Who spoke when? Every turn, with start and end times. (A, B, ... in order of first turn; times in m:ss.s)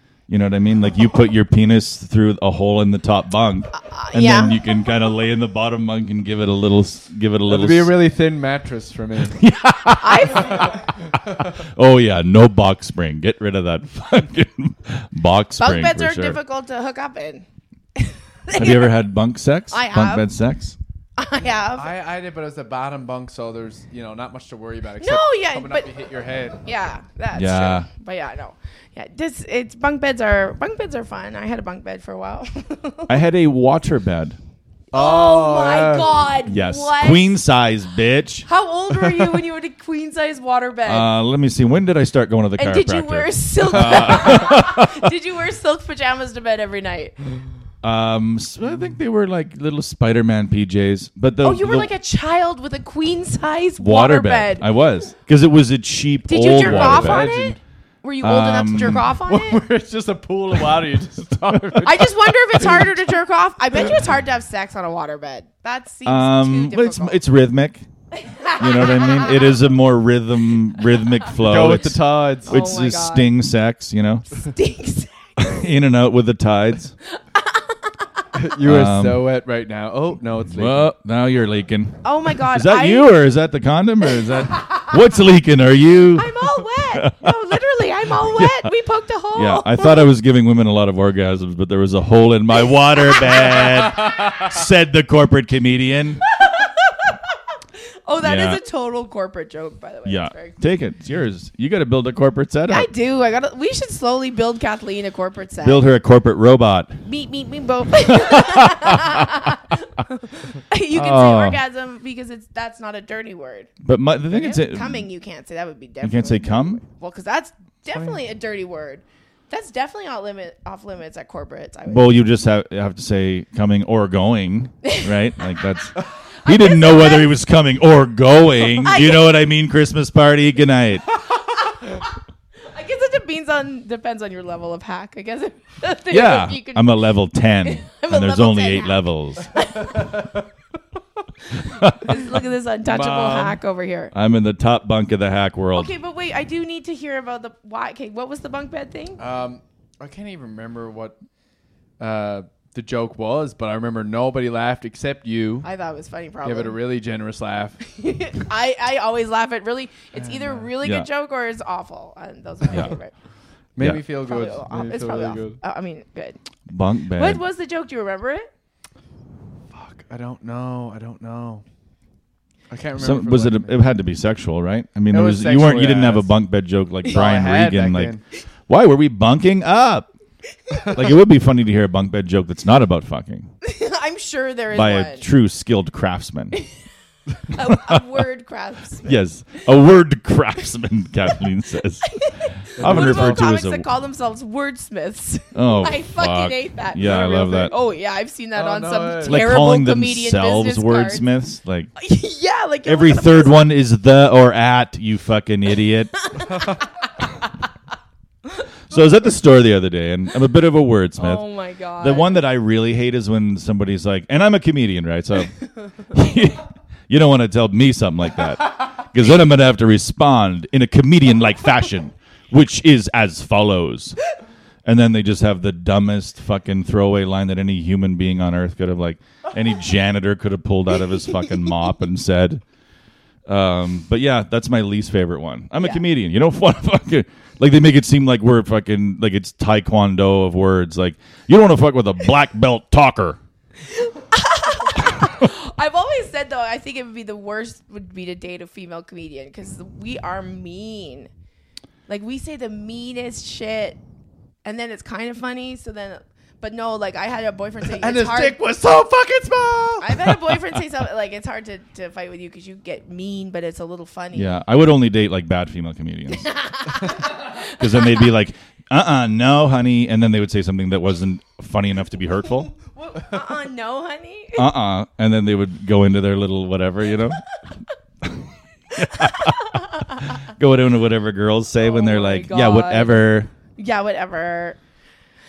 0:00.3-0:07.9 A
0:03.7-0:04.6 B
0:07.5-0:09.4 C
0:09.2-0:16.4 A
0:10.0-0:10.8 B
0:15.6-0:17.4 B
0:18.0-0:18.9 B
0:18.5-0:20.8 A
0:19.7-0:20.3 B
0:21.2-0:21.9 B
0:21.8-0:26.6 C
0:25.0-0:25.9 B
0:26.6-0:33.2 B
0:27.3-0:27.9 A
0:33.1-0:34.4 A
0:34.9-0:37.4 B
0:34.9-0:36.3 C
0:36.5-0:38.5 A
0:38.4-0:41.1 B
0:40.8-0:45.1 A
0:42.6-0:47.2 B
0:47.8-0:51.9 A
0:51.4-0:54.7 B
0:53.8-0:57.3 A
0:56.2-0:59.6 B
0:56.6-0:57.6 C
0:58.2-0:59.1 A
0:59.2-1:03.0 C
1:01.8-1:07.2 B
1:06.0-1:07.8 A
1:08.1-1:09.6 B
1:08.6-1:14.5 A
1:11.4-1:12.6 C
1:12.4-1:13.3 B
1:14.4-1:15.1 B
1:15.4-1:17.0 A
1:17.2-1:18.2 B
1:18.3-1:20.9 C
1:18.6-1:19.3 A
1:20.5-1:27.2 A
1:22.0-1:23.1 B
1:24.6-1:24.9 B
1:26.2-1:30.1 B
1:28.2-1:28.7 A
1:29.3-1:36.2 A
1:32.9-1:34.1 B
1:36.4-1:40.6 B
1:38.2-1:38.6 A
1:40.0-1:42.9 A
1:42.7-1:45.8 B
1:45.6-1:47.0 A
1:47.0-1:53.7 B
1:48.1-1:49.5 A
1:50.9-1:51.6 A
1:53.8-1:55.0 A
1:54.3-2:02.2 B
1:56.0-1:56.8 A
2:01.9-2:11.1 A
2:06.4-2:07.3 B
2:08.8-2:09.4 B
2:11.4-2:12.1 B
2:12.6-2:16.9 B
2:16.1-2:19.5 A
2:17.6-2:20.2 B
2:19.9-2:20.4 C
2:21.5-2:24.1 B
2:21.6-2:22.0 A
2:22.8-2:23.6 C
2:24.1-2:25.9 A
2:25.7-2:29.2 B
2:29.2-2:31.2 C
2:32.0-2:35.7 C
2:35.6-2:36.8 B
2:36.4-2:37.8 C
2:37.8-2:43.1 B
2:40.1-2:40.7 C
2:40.8-2:41.1 A
2:43.8-2:45.6 C
2:44.2-2:46.4 B
2:46.7-2:47.4 A
2:47.1-2:48.5 B
2:49.7-2:51.6 C
2:52.7-2:53.8 C
2:53.0-2:58.1 A
2:55.1-2:56.3 C
2:57.0-2:58.2 C
2:58.7-3:00.1 A
3:00.9-3:03.5 A
3:03.6-3:05.3 B
3:04.7-3:06.6 A
3:07.4-3:09.2 B
3:07.7-3:08.0 A
3:09.0-3:12.2 A
3:12.0-3:21.2 B
3:12.8-3:13.8 A
3:12.8-3:13.4 C
3:15.5-3:17.7 A
3:18.5-3:19.5 C
3:19.2-3:21.9 A
3:22.0-3:23.6 B
3:22.8-3:26.3 A
3:26.3-3:26.9 B
3:28.9-3:31.4 A
3:31.2-3:32.4 B
3:32.0-3:44.2 A
3:44.8-3:52.6 A
3:53.5-4:03.4 A
3:55.8-3:56.0 B
4:03.8-4:11.3 B
4:12.1-4:14.0 B
4:14.6-4:18.6 B
4:17.8-4:20.8 C
4:20.0-4:24.5 B
4:24.3-4:26.5 A
4:26.4-4:28.3 B
4:27.1-4:32.7 A
4:32.8-4:34.7 B
4:34.6-4:37.4 A
4:38.2-4:39.8 A
4:38.9-4:40.5 B
4:40.3-4:43.5 A
4:41.8-4:43.2 B
4:43.8-4:44.8 B